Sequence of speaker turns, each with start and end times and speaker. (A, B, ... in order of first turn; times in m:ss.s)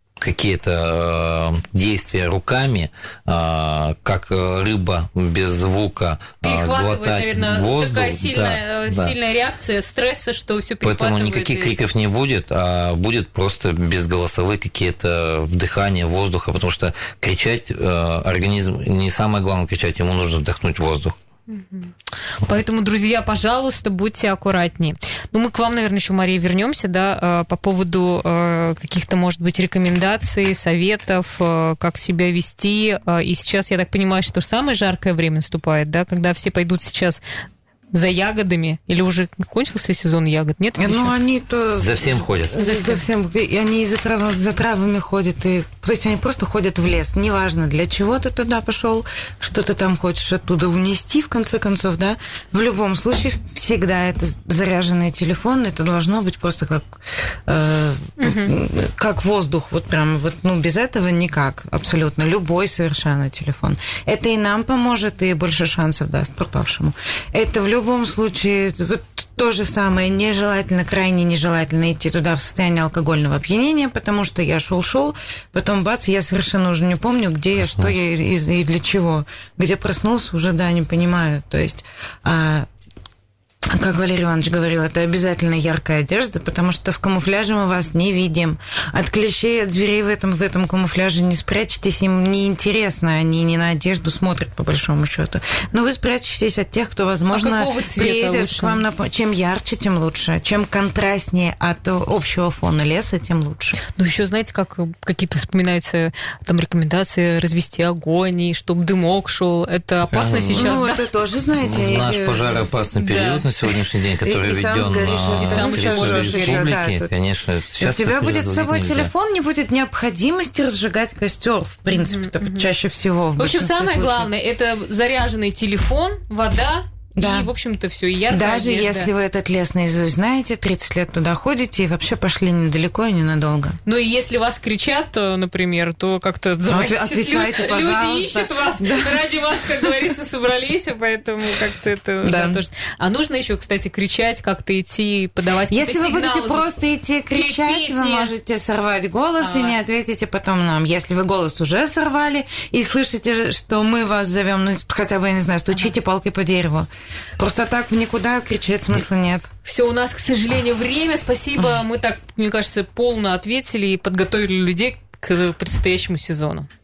0:00.2-0:09.1 A
0:06.4-0:11.8 B
0:10.8-0:21.2 A
0:21.5-0:37.2 B
0:37.9-0:41.1 B
0:40.8-1:22.7 C
0:41.7-0:42.9 A
0:58.2-0:58.5 B
1:23.7-1:43.8 C
1:37.3-1:38.8 B
1:43.9-1:51.0 B
1:50.1-1:50.8 A
1:50.6-1:52.6 C
1:51.6-1:59.1 A
1:53.0-1:53.5 B
1:54.2-1:57.1 C
1:55.4-1:56.6 B
1:57.8-2:04.3 C
2:01.9-2:02.6 B
2:03.4-2:09.1 B
2:07.2-2:07.5 C
2:08.3-2:13.8 C
2:13.8-2:26.7 B
2:16.6-2:19.2 C
2:22.2-2:22.6 C
2:25.7-2:39.5 C
2:27.3-2:28.3 B
2:29.4-2:29.8 B
2:39.6-2:46.7 B